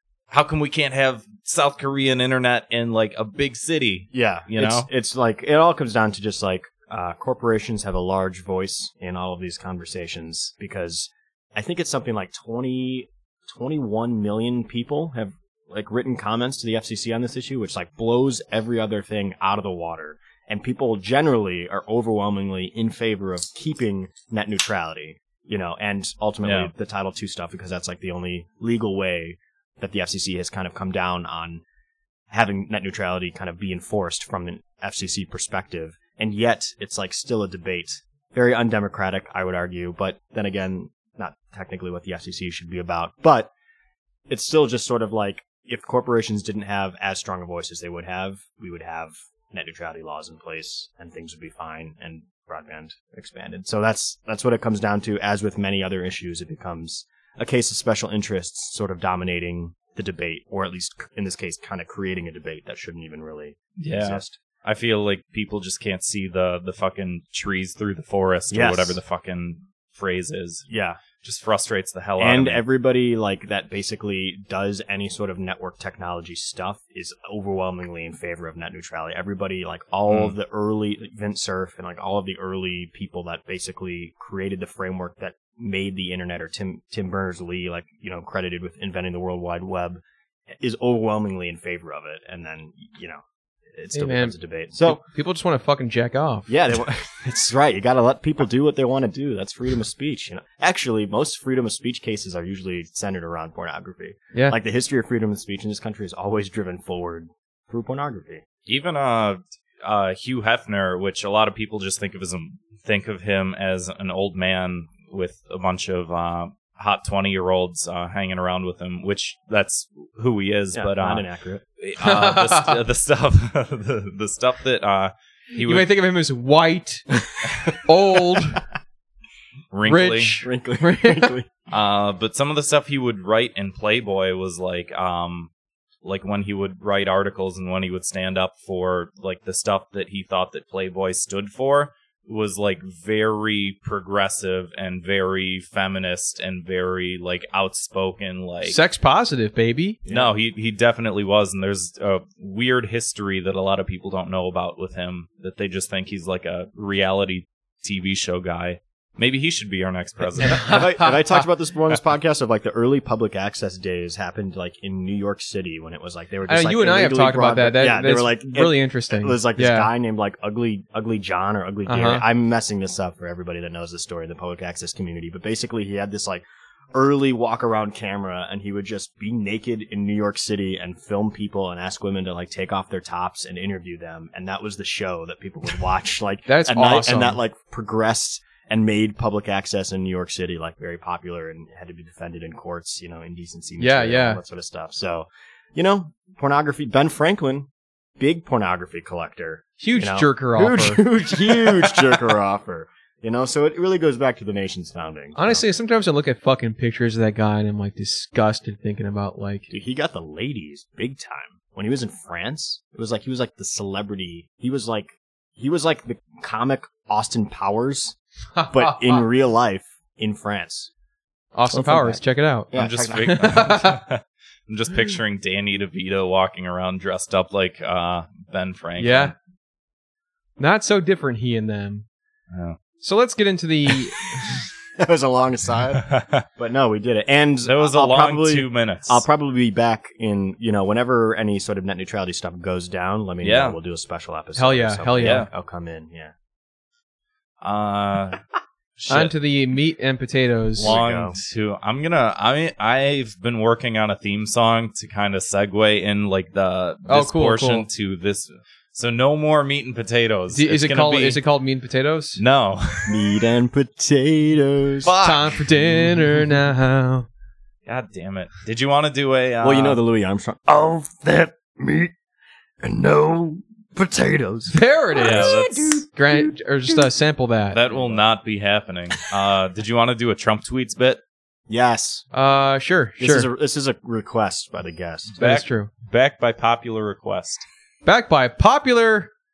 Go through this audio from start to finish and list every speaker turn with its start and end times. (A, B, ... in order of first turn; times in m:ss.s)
0:00.3-0:04.9 A
0:04.1-0:31.6 B
0:26.4-0:26.7 A
0:32.3-0:43.5 B
0:44.3-1:04.4 B
1:03.8-1:10.6 A
1:08.5-1:09.0 B
1:10.7-1:11.0 B
1:11.2-1:12.6 A
1:12.2-1:30.0 B
1:20.1-1:20.4 A
1:30.6-1:35.0 B
1:33.9-1:36.5 C
1:36.5-1:48.4 B
1:48.7-2:01.3 A
2:00.7-2:01.6 B
2:01.8-2:05.9 A
2:02.0-2:02.8 C
2:05.5-2:07.1 C
2:07.8-2:08.6 C
2:09.7-2:10.4 A
2:09.8-2:11.3 C
2:10.4-2:11.5 B
2:11.7-2:15.5 A
2:16.0-2:28.8 A
2:28.6-2:30.0 C
2:30.0-2:30.3 B
2:30.1-2:40.8 A
2:40.4-2:41.2 C
2:40.4-3:25.7 B
2:46.5-2:49.9 C
2:51.9-2:52.2 C
3:06.5-3:07.4 C
3:13.8-3:14.4 C
3:19.8-3:21.1 C
3:25.4-3:29.7 C
3:29.7-3:38.2 B
3:38.6-3:39.2 C
3:38.7-3:40.9 B
3:41.6-3:44.0 C
3:41.7-3:43.6 B
3:42.7-3:49.3 A
3:49.0-3:49.3 C
3:50.6-3:52.1 C
3:52.5-3:52.8 A
3:53.0-3:54.2 C
3:55.0-4:06.3 B
3:56.0-3:56.4 A
3:57.6-3:59.2 A
4:03.4-4:03.8 A
4:04.6-4:05.5 C
4:05.2-4:05.5 A
4:07.6-4:08.4 A
4:09.0-4:09.4 A
4:09.1-4:11.0 C
4:10.8-4:21.4 A
4:10.8-4:11.4 B
4:17.1-4:17.9 C
4:20.5-4:22.4 C
4:22.4-4:23.2 A
4:23.1-4:25.1 B
4:25.0-4:26.2 A
4:25.2-4:27.3 C
4:27.9-4:30.0 A
4:29.6-4:32.1 B
4:32.8-4:37.1 B
4:34.7-4:35.5 C
4:35.2-4:36.0 A
4:36.1-4:37.8 C
4:37.7-4:41.2 A
4:37.9-4:38.2 B
4:41.7-4:42.2 B
4:42.3-4:43.5 C
4:43.2-4:45.4 B
4:45.4-4:47.7 A
4:45.4-4:45.9 C
4:48.0-4:49.3 C